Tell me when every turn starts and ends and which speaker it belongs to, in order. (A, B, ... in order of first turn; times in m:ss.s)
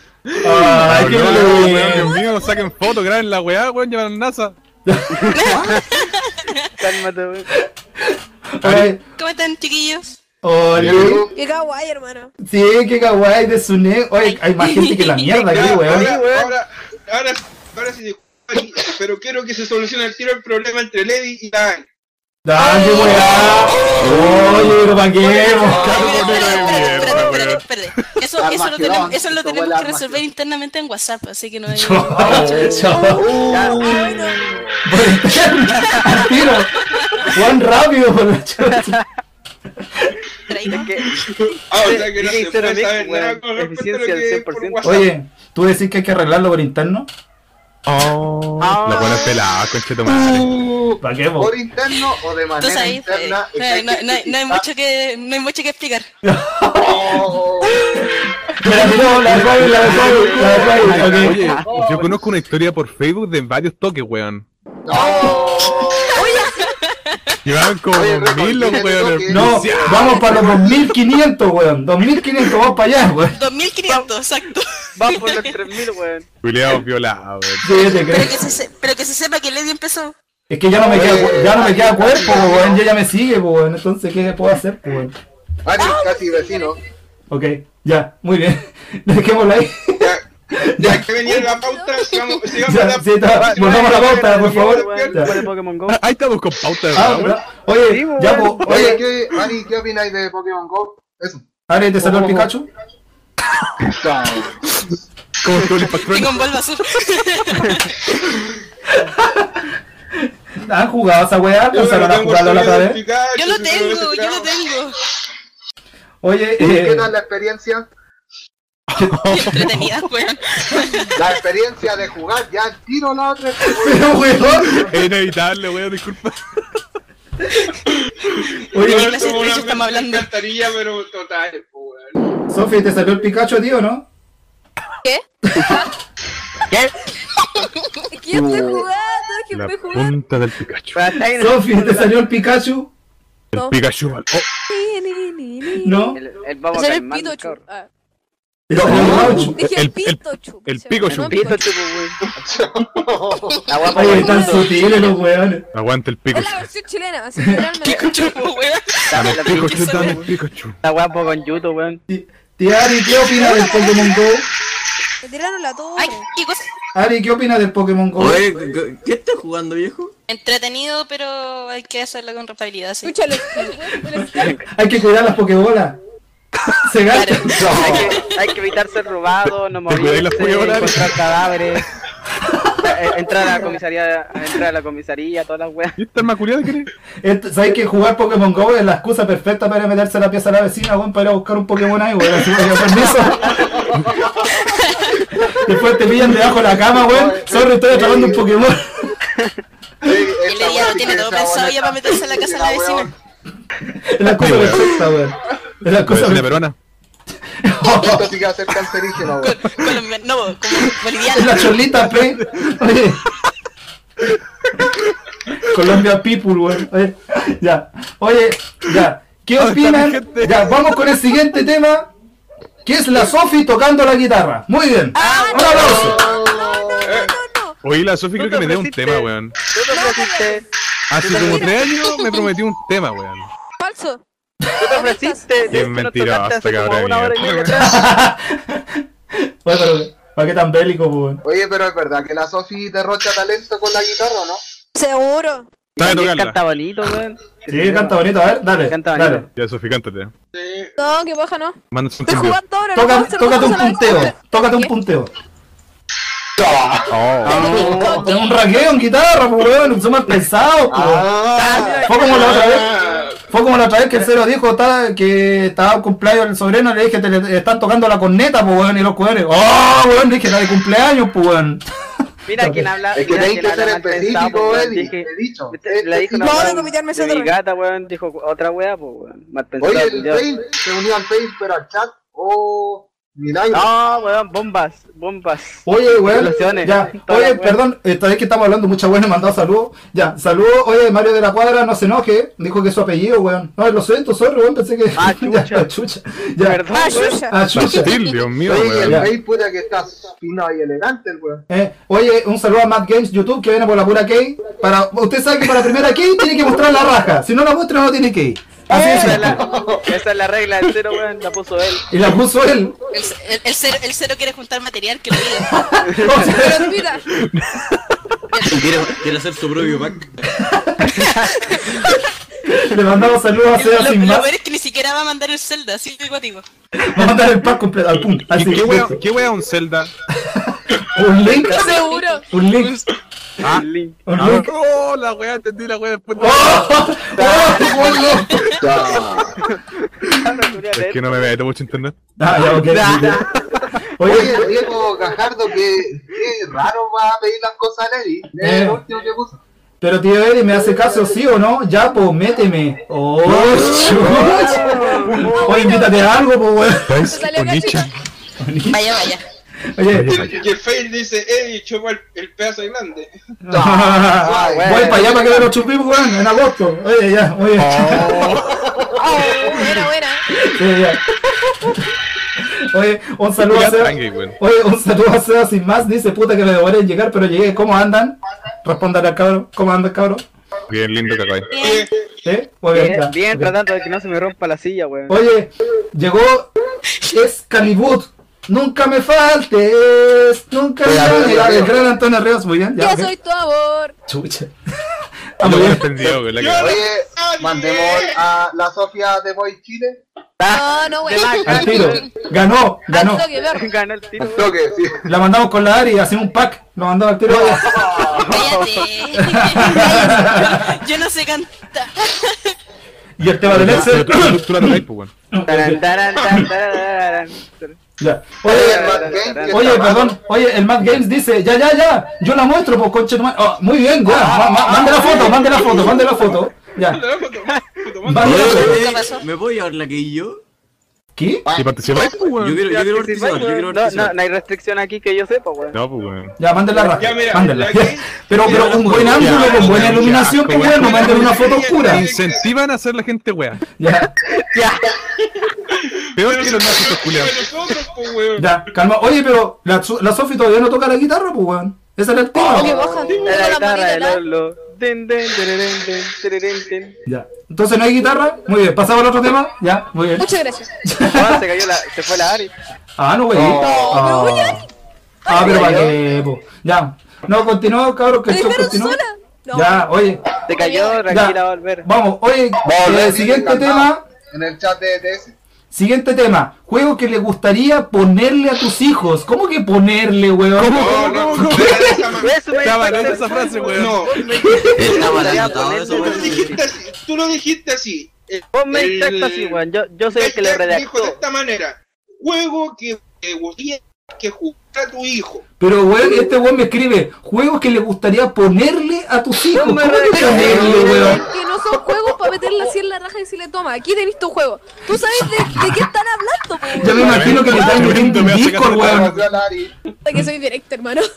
0:00.2-0:04.6 A
0:00.4-0:02.2 B
0:04.8-0:05.7 B
0:05.2-0:05.8 C
0:05.3-0:06.7 D
0:06.8-0:07.5 C
0:08.0-0:09.0 B
0:08.6-0:08.9 A
0:09.2-0:10.2 D
0:10.4-0:11.2 B
0:10.8-0:11.0 A
0:10.8-0:11.4 E
0:11.3-0:12.3 F
0:12.4-0:16.1 B
0:14.2-0:15.4 D
0:15.4-0:21.8 G
0:15.8-0:16.5 C
0:22.4-0:26.0 B
0:22.6-0:23.9 D
0:24.2-0:24.5 H
0:25.4-0:26.1 F
0:25.5-0:32.7 D
0:25.5-0:27.3 E
0:25.6-0:27.6 A
0:28.4-0:30.2 E
0:31.7-0:33.3 B
0:32.2-0:34.6 E
0:33.4-0:34.0 C
0:33.4-0:34.5 F
0:34.8-0:39.0 B
0:37.0-0:37.3 D
0:38.6-0:39.0 C
0:40.5-0:40.9 D
0:40.7-0:41.2 C
0:41.7-0:45.1 G
0:41.7-0:45.0 C
0:44.8-0:47.1 B
0:47.8-0:50.5 A
0:48.6-0:49.4 C
0:50.1-0:54.6 E
0:51.0-0:51.5 B
0:52.6-0:56.1 D
0:56.2-0:57.3 B
0:56.8-0:57.8 E
0:57.7-0:58.1 D
0:58.0-1:01.5 B
0:58.6-1:02.2 C
0:59.2-1:04.4 A
1:04.8-1:06.4 E
1:05.0-1:05.4 D
1:05.0-1:05.3 C
1:06.1-1:07.4 D
1:07.4-1:10.5 A
1:07.9-1:10.5 E
1:09.3-1:13.4 B
1:13.3-1:15.6 D
1:15.0-1:16.3 C
1:16.4-1:17.7 A
1:17.6-1:18.4 B
1:17.8-1:20.1 D
1:20.5-1:25.2 B
1:20.7-1:22.8 E
1:25.6-1:26.8 E
1:25.8-1:26.7 F
1:27.3-1:31.4 B
1:30.8-1:35.2 G
1:31.4-1:32.6 F
1:32.6-1:35.4 B
1:33.3-1:36.0 C
1:35.9-1:37.4 A
1:36.9-1:39.0 B
1:37.8-1:39.0 C
1:38.6-1:41.5 E
1:41.7-1:42.7 B
1:42.0-1:42.5 E
1:43.8-1:44.6 E
1:45.4-1:46.4 A
1:46.1-1:48.0 D
1:48.9-1:49.6 B
1:50.2-1:53.0 B
1:51.7-1:54.5 G
1:53.3-1:55.0 D
1:56.2-1:57.1 B
1:56.6-1:57.9 E
1:59.0-1:59.4 B
1:59.0-1:59.7 A
1:59.3-2:01.2 D
2:01.2-2:05.1 E
2:03.6-2:04.8 B
2:04.9-2:06.6 A
2:08.2-2:12.2 G
2:08.7-2:09.1 B
2:08.8-2:10.3 D
2:12.5-2:14.1 B
2:15.0-2:15.9 F
2:17.7-2:18.1 D
2:18.1-2:20.2 F
2:18.3-2:18.8 E
2:19.5-2:21.0 A
2:20.9-2:22.1 C
2:21.2-2:22.9 B
2:23.5-2:24.5 A
2:24.7-2:26.2 F
2:25.8-2:26.2 B
2:26.1-2:27.6 C
2:26.7-2:27.9 F
2:28.7-2:29.6 B
2:28.8-2:29.5 E
2:28.8-2:31.5 A
2:29.0-2:31.8 F
2:31.1-2:32.2 C
2:32.3-2:33.7 E
2:33.7-2:34.8 C
2:33.9-2:35.6 B
2:34.0-2:34.8 F
2:35.7-2:36.7 A
2:36.3-2:38.3 F
2:37.4-2:38.0 B
2:37.8-2:40.2 D
2:39.1-2:40.3 C
2:39.1-2:40.8 A
2:40.8-2:42.0 C
2:42.1-2:44.4 B
2:43.2-2:44.3 F
2:45.2-2:46.3 F
2:46.0-2:46.7 D
2:46.9-2:48.4 B
2:48.2-2:50.1 H
2:50.3-2:53.2 D
2:53.0-2:54.5 F
2:54.1-2:56.0 B
2:54.3-2:54.6 C
2:56.8-2:57.9 B
2:57.0-2:58.3 D
2:57.6-2:58.1 E
2:57.7-3:01.8 C
2:59.8-3:01.5 A
3:02.8-3:06.0 C
3:06.0-3:06.9 A
3:07.2-3:13.7 B
3:13.0-3:14.6 E
3:14.7-3:15.1 D
3:15.4-3:15.8 E
3:15.5-3:19.1 B
3:16.3-3:18.5 E
3:20.0-3:23.1 E
3:20.4-3:23.1 D
3:23.9-3:26.6 B
3:24.4-3:25.0 A
3:26.1-3:26.8 A
3:27.6-3:28.3 B
3:27.8-3:29.9 E
3:29.4-3:31.8 D
3:31.3-3:33.2 B
3:31.8-3:32.7 A
3:35.7-3:42.1 B
3:39.6-3:40.9 A
3:42.8-3:46.2 B
3:45.1-3:47.7 F
3:45.2-3:46.1 C
3:45.7-3:47.2 E
3:47.0-3:47.3 G
3:47.8-3:49.5 A
3:48.4-3:50.6 C
3:49.9-3:50.6 F
3:51.1-3:53.5 A
3:51.2-3:51.7 C
3:51.2-3:52.5 F
3:53.8-3:54.2 F
3:54.8-3:58.0 C
3:54.9-3:55.6 F
3:55.7-3:57.9 A
3:57.6-4:01.4 B
4:01.4-4:04.6 E
4:04.9-4:05.7 F
4:06.0-4:08.2 C
4:06.0-4:06.6 A
4:07.7-4:09.5 B
4:08.8-4:09.4 C
4:09.5-4:10.3 A
4:10.5-4:10.9 G
4:11.0-4:14.9 F
4:11.9-4:12.6 A
4:12.9-4:15.3 B
4:16.6-4:17.0 E
4:17.1-4:17.7 A
4:17.4-4:18.2 C
4:17.4-4:18.9 F
4:17.7-4:18.1 E
4:17.7-4:21.3 B
4:20.9-4:22.0 E
4:21.6-4:22.8 C
4:22.0-4:22.9 B
4:22.2-4:23.4 G
4:23.5-4:31.8 B
4:32.5-4:40.4 C
4:32.6-4:32.8 B
4:33.1-4:36.9 E
4:36.3-4:37.5 F
4:39.8-4:43.9 E
4:43.7-4:47.8 C
4:45.8-4:56.8 B
4:55.2-4:55.9 C
4:56.6-4:57.4 C
4:56.9-4:58.1 F
4:57.4-4:58.2 B
4:57.7-4:59.3 A
4:58.6-5:01.6 E
4:59.0-4:59.3 B
5:01.7-5:09.6 B
5:08.9-5:12.0 C
5:09.4-5:10.0 E
5:12.1-5:13.0 B
5:13.1-5:15.8 D
5:15.8-5:17.0 B
5:16.0-5:16.3 C
5:16.3-5:17.2 F
5:17.3-5:17.8 A
5:18.5-5:18.8 D
5:18.6-5:20.4 H
5:20.6-5:21.2 B
5:21.1-5:21.5 C
5:21.3-5:22.3 D
5:22.7-5:24.5 B
5:23.7-5:26.6 D
5:26.9-5:29.2 B
5:28.5-5:30.1 A
5:30.3-5:32.0 B
5:31.4-5:32.2 C
5:31.6-5:32.5 F
5:32.5-5:33.0 B
5:32.7-5:33.0 D
5:33.6-5:37.0 A
5:33.6-5:34.2 C
5:34.2-5:34.7 B
5:36.4-5:38.7 B
5:37.3-5:38.6 C
5:38.8-5:39.6 E
5:39.6-5:41.4 C
5:41.0-5:42.2 A
5:42.4-5:43.5 B
5:42.6-5:43.9 C
5:44.2-5:44.7 B
5:44.2-5:49.6 E
5:48.6-5:49.0 B
5:50.0-5:57.4 B
5:53.4-5:54.1 A
5:53.7-5:55.0 E
5:54.1-5:56.0 C
5:54.9-5:56.4 F
5:57.1-5:58.2 A
5:57.1-5:58.2 F
5:58.6-5:59.0 B
5:58.9-5:59.4 D
5:59.9-6:00.5 B
6:00.1-6:00.5 A
6:00.3-6:03.3 G
6:03.6-6:08.5 B
6:03.7-6:05.3 E
6:04.4-6:05.6 C
6:07.8-6:08.5 A
6:08.1-6:09.6 E
6:09.1-6:10.4 F
6:10.5-6:11.2 B
6:12.6-6:20.4 B
6:13.6-6:14.6 A
6:20.9-6:21.7 A
6:21.7-6:22.1 D
6:21.8-6:22.1 G
6:22.4-6:23.7 B
6:22.9-6:25.4 C
6:25.3-6:26.7 B
6:27.3-6:33.3 B
6:31.0-6:32.0 E
6:33.0-6:34.1 F
6:34.3-6:34.7 B
6:35.6-6:36.0 B
6:35.6-6:37.0 A
6:36.3-6:38.4 G
6:36.8-6:40.2 E
6:40.6-6:42.2 C
6:40.7-6:42.2 F
6:41.6-6:43.4 B
6:43.1-6:43.9 F
6:43.7-6:44.7 C
6:44.4-6:45.3 E
6:45.2-6:47.9 B
6:47.5-6:48.5 E
6:48.3-6:49.1 C
6:48.4-6:52.8 D
6:49.4-6:51.0 B
6:53.4-6:55.0 B
6:53.7-6:55.3 A
6:55.5-6:56.7 B
6:55.6-6:58.0 C
6:58.2-7:07.2 B
6:58.6-7:00.2 C
6:58.6-7:00.4 E
7:04.3-7:05.9 C
7:04.4-7:05.8 E
7:07.1-7:08.6 G
7:07.7-7:08.0 C
7:08.2-7:09.0 B
7:08.4-7:10.6 H
7:08.4-7:09.4 D
7:11.4-7:11.6 B
7:11.6-7:12.4 E
7:11.7-7:12.9 A
7:12.6-7:14.3 H
7:12.8-7:16.0 C
7:15.9-7:16.6 A
7:16.6-7:22.2 B
7:17.1-7:22.6 G
7:18.7-7:23.8 A
7:24.0-7:24.3 B
7:24.5-7:25.1 C
7:25.9-7:28.8 G
7:26.4-7:27.7 A
7:28.6-7:33.0 B
7:32.5-7:33.5 E
7:32.7-7:34.4 F
7:33.3-7:33.6 G
7:33.4-7:37.1 C
7:37.2-7:40.5 B
7:40.4-7:40.9 F
7:41.0-7:41.6 B
7:41.2-7:42.7 C
7:43.2-7:44.8 B
7:43.5-7:44.2 E
7:43.8-7:44.8 F
7:45.4-7:49.2 B
7:45.5-7:46.2 C
7:48.5-7:50.1 F
7:49.7-7:50.4 B
7:50.6-7:52.1 C
7:50.7-7:51.2 F
7:51.3-7:54.2 B
7:52.8-7:55.6 E
7:55.9-8:02.0 B
8:00.8-8:04.9 A
8:00.9-8:04.5 G
8:02.4-8:06.8 C
8:05.0-8:06.8 H
8:06.1-8:09.8 G
8:08.7-8:11.4 C
8:10.3-8:15.6 G
8:15.8-8:21.4 B
8:19.7-8:21.4 C
8:20.4-8:21.4 E
8:20.9-8:27.8 F
8:25.1-8:26.1 B
8:26.9-8:29.4 B
8:27.2-8:29.4 A
8:27.6-8:28.2 E
8:28.8-8:30.0 E
8:30.2-8:31.3 F